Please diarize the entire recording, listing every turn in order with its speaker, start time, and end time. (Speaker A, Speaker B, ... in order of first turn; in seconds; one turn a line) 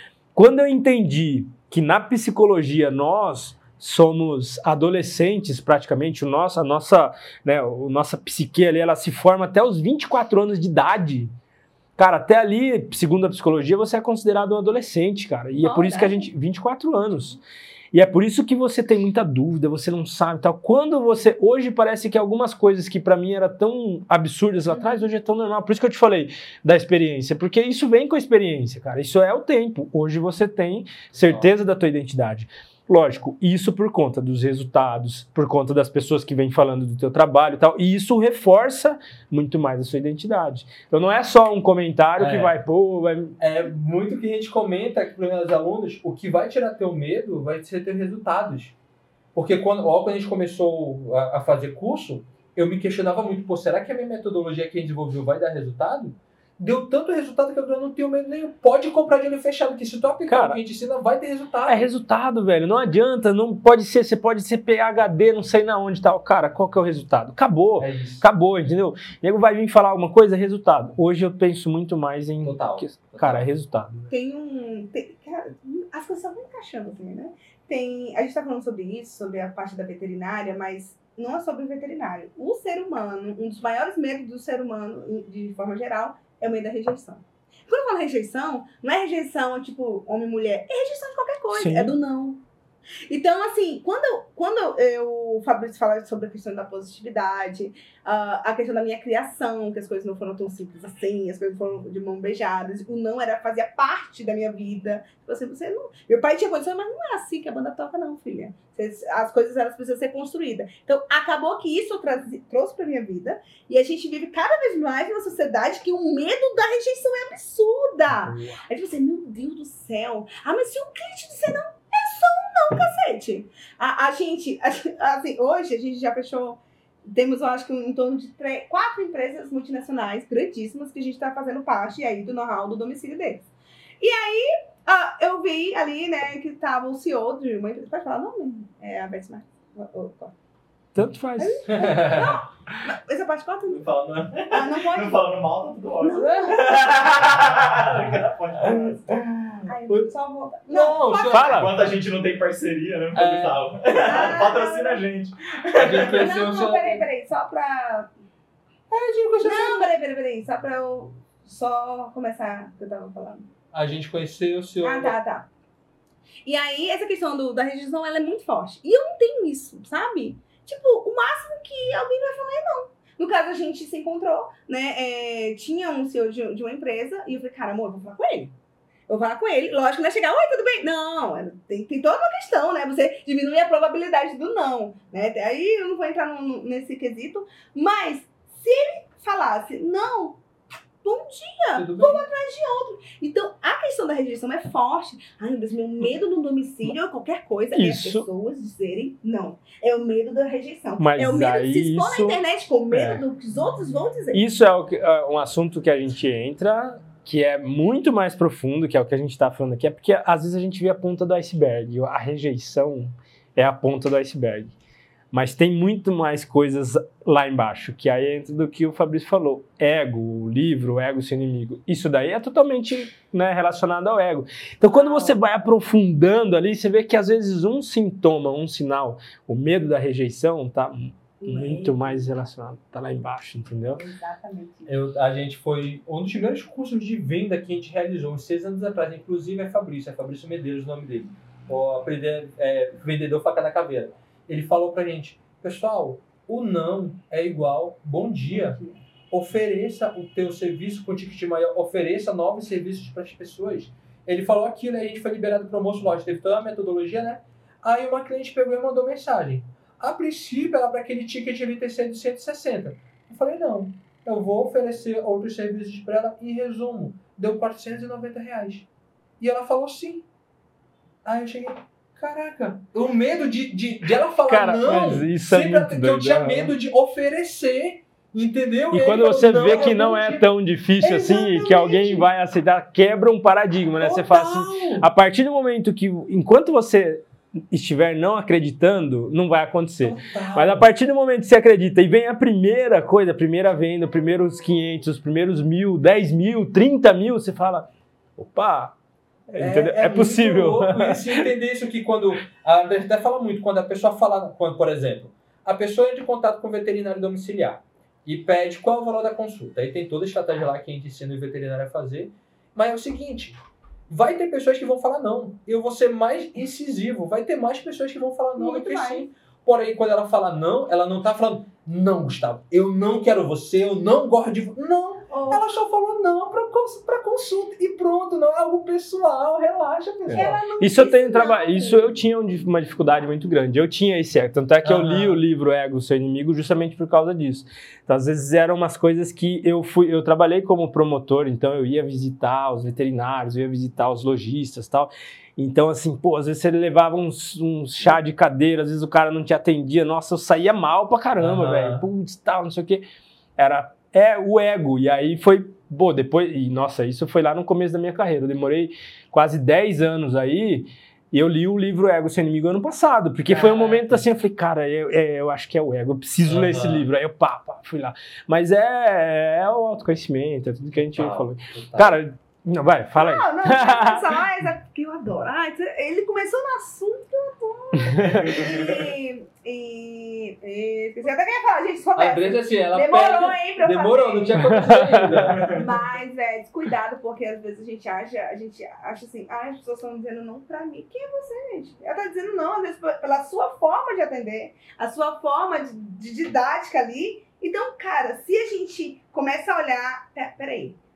Speaker A: 0.3-11.3
Speaker A: 12.0-17.4
Speaker B: 15.6-16.3
Speaker A: 17.9-43.4
Speaker C: 31.2-31.5
Speaker C: 42.2-42.6
Speaker C: 43.4-48.8
Speaker C: 49.4-61.9
Speaker A: 60.3-60.6
Speaker A: 61.7-74.1
Speaker C: 67.8-68.2
Speaker C: 72.4-73.5
Speaker B: 74.1-92.4
Speaker A: 91.5-92.0
Speaker B: 93.1-133.5
Speaker A: 118.1-118.6
Speaker B: 134.0-140.3
Speaker A: 140.9-141.9
Speaker B: 141.4-143.8
Speaker C: 141.7-142.4
Speaker D: 143.7-149.2
Speaker B: 144.5-145.2
Speaker B: 146.0-147.2
Speaker C: 149.1-150.1
Speaker B: 149.7-151.7
Speaker C: 150.7-151.9
Speaker A: 151.3-151.7
Speaker D: 151.4-156.2
Speaker C: 153.1-153.7
Speaker B: 153.9-155.0
Speaker C: 155.7-157.1
Speaker B: 155.9-158.1
Speaker C: 158.9-159.9
Speaker B: 159.4-163.5
Speaker C: 163.7-165.2
Speaker B: 164.8-165.5
Speaker B: 166.4-178.6
Speaker B: 179.1-190.4
Speaker B: 191.0-204.4
Speaker C: 191.7-192.3
Speaker A: 197.7-198.3
Speaker A: 201.0-203.2
Speaker A: 204.3-214.7
Speaker A: 215.3-234.1
Speaker B: 224.9-225.4
Speaker B: 231.4-232.3
Speaker B: 234.0-234.9
Speaker C: 234.9-268.9
Speaker B: 248.5-249.0
Speaker C: 269.4-270.3
Speaker C: 271.2-280.5
Speaker A: 274.5-276.7
Speaker A: 278.9-299.0
Speaker C: 281.0-282.2
Speaker C: 284.0-285.1
Speaker C: 290.0-290.9
Speaker A: 299.5-301.5
Speaker C: 299.6-330.6
Speaker B: 318.6-319.3
Speaker B: 325.3-325.7
Speaker A: 330.3-353.1
Speaker B: 330.3-332.1
Speaker C: 334.8-335.4
Speaker C: 351.4-352.0
Speaker A: 353.6-374.4
Speaker C: 363.5-364.2
Speaker C: 366.4-367.1
Speaker C: 371.1-372.2
Speaker B: 373.2-384.7
Speaker A: 378.0-378.7
Speaker C: 382.2-385.8
Speaker A: 384.6-385.7
Speaker B: 385.7-401.0